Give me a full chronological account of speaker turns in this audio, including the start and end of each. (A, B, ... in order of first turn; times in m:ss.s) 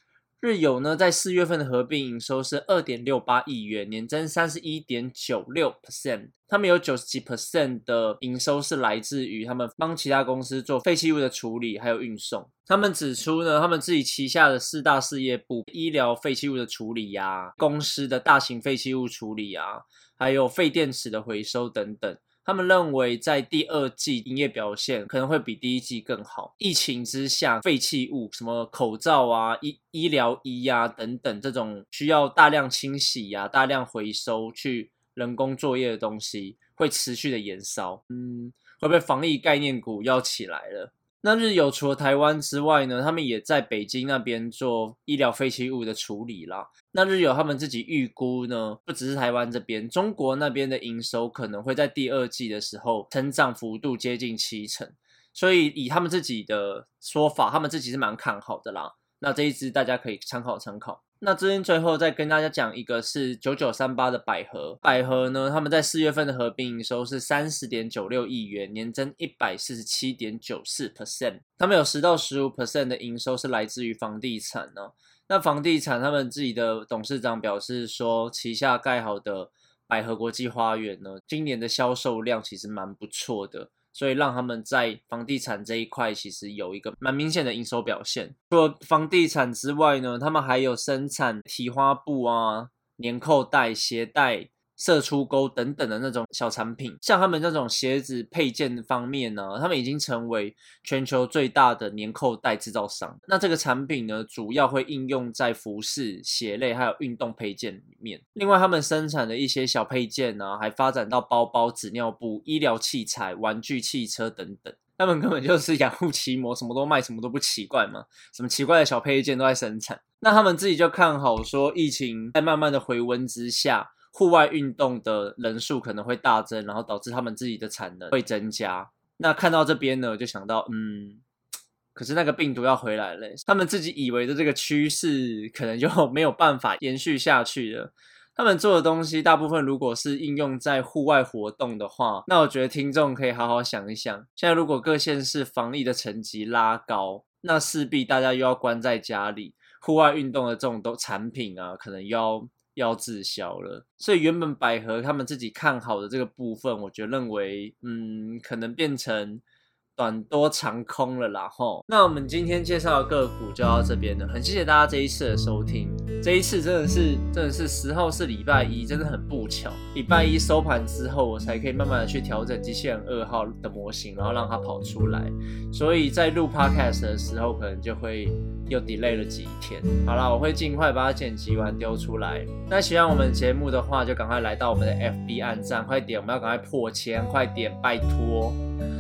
0:00.4-2:11.2 A
2:12.0-2:39.4 A
2:40.0-3:08.6 A